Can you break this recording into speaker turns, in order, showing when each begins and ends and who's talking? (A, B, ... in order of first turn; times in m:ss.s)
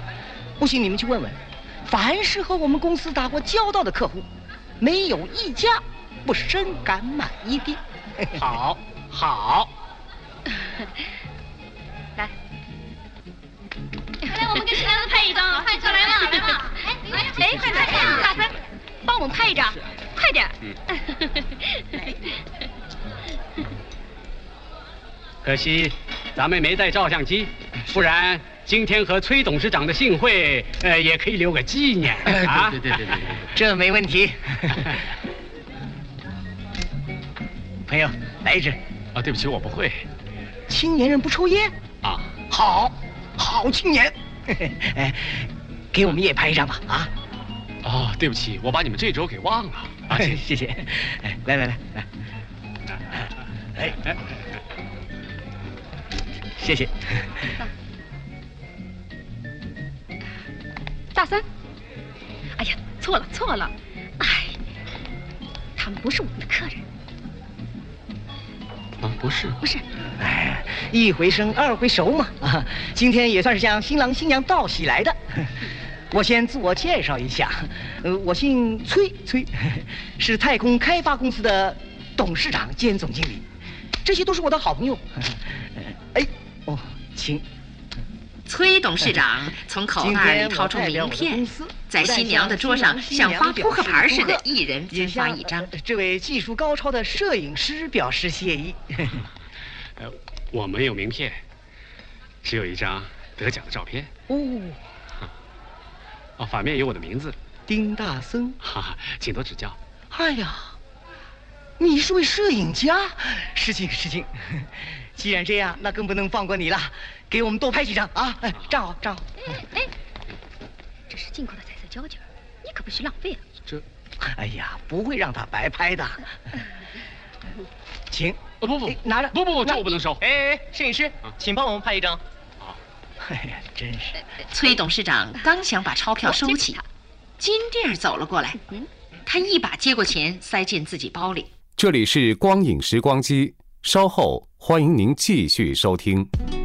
0:00.6-0:04.2 A
0:04.8-0:08.4 A
0:08.4-0:09.7 B
0:14.2-0:20.6 C
0:21.1-0:22.2 C
0:25.4-0:33.4 B
0:33.5-0:35.0 A
0:37.9-0:38.8 A
0:39.1-0:40.1 B
0:40.7-0:41.7 A
0:42.0-0:42.4 B
0:42.5-0:47.1 A
0:47.8-0:50.4 B
0:50.1-0:52.1 A
0:56.6-0:57.5 A
1:01.1-1:01.4 C
1:02.6-1:04.6 C
1:05.8-1:06.8 C
1:09.0-1:09.6 B
1:10.2-1:23.4 A
1:24.0-1:27.4 A
1:28.4-1:35.7 D
1:30.0-1:39.2 A
1:40.0-1:41.4 B
1:42.4-1:44.1 B
1:44.3-1:44.8 A
1:46.4-1:47.4 B
1:47.7-1:48.6 A
1:48.6-1:49.8 B
1:50.1-1:50.8 A
1:51.8-1:59.3 A
2:01.1-2:03.4 C
2:04.2-2:06.2 A
2:08.1-2:09.8 A
2:08.6-2:10.2 B
2:10.2-2:12.2 E
2:13.2-2:14.2 A
2:14.5-2:16.8 D
2:16.2-2:16.8 C
2:17.4-2:18.6 D
2:18.6-2:18.9 C
2:19.2-2:21.5 D
2:21.8-2:26.3 F